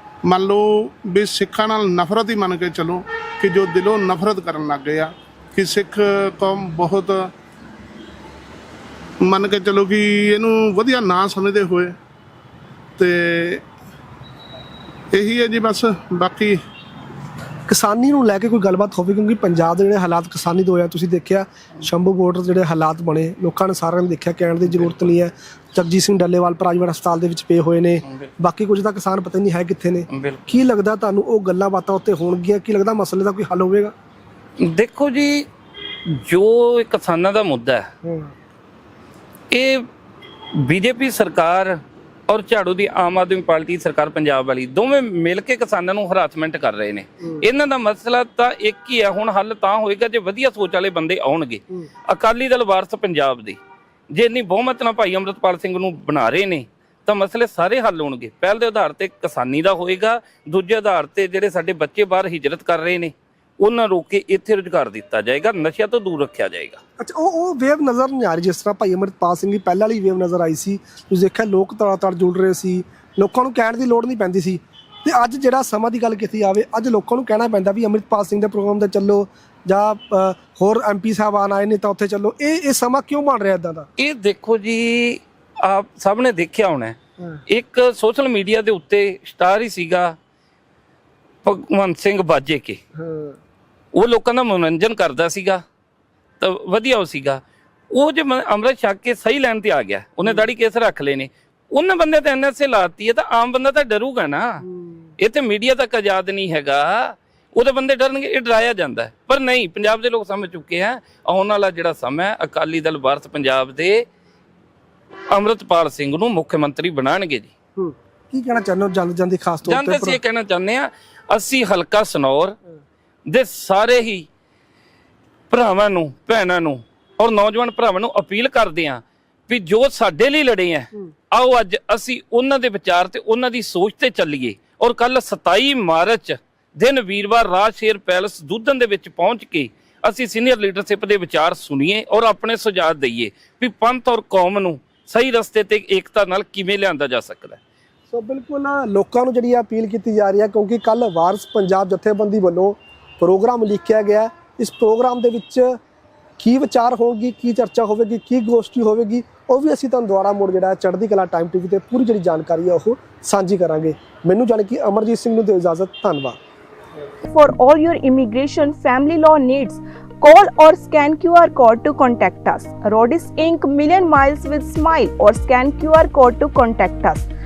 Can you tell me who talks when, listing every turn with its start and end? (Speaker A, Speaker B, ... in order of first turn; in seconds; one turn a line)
Speaker A: 0.2-7.3
Speaker A: 9.2-12.0
Speaker A: 13.0-13.6
Speaker A: 15.1-16.6
Speaker B: 17.7-33.9
Speaker C: 24.7-25.1
Speaker C: 30.1-30.5
Speaker C: 34.6-35.5
Speaker C: 36.1-37.9
Speaker B: 38.0-38.3
Speaker C: 39.5-39.9
Speaker C: 40.5-53.6
Speaker C: 54.1-66.8
Speaker B: 67.0-83.9
Speaker C: 84.0-87.0
Speaker C: 87.5-90.2
Speaker C: 91.4-92.8
Speaker B: 93.0-93.4
Speaker C: 93.9-95.6
Speaker C: 96.4-104.6
Speaker C: 105.2-114.1
Speaker C: 115.3-117.5
Speaker B: 117.8-120.2
Speaker C: 119.7-122.6
Speaker C: 123.3-124.3
Speaker C: 125.5-147.6
Speaker B: 148.1-155.8
Speaker B: 156.4-166.4
Speaker D: 167.3-177.3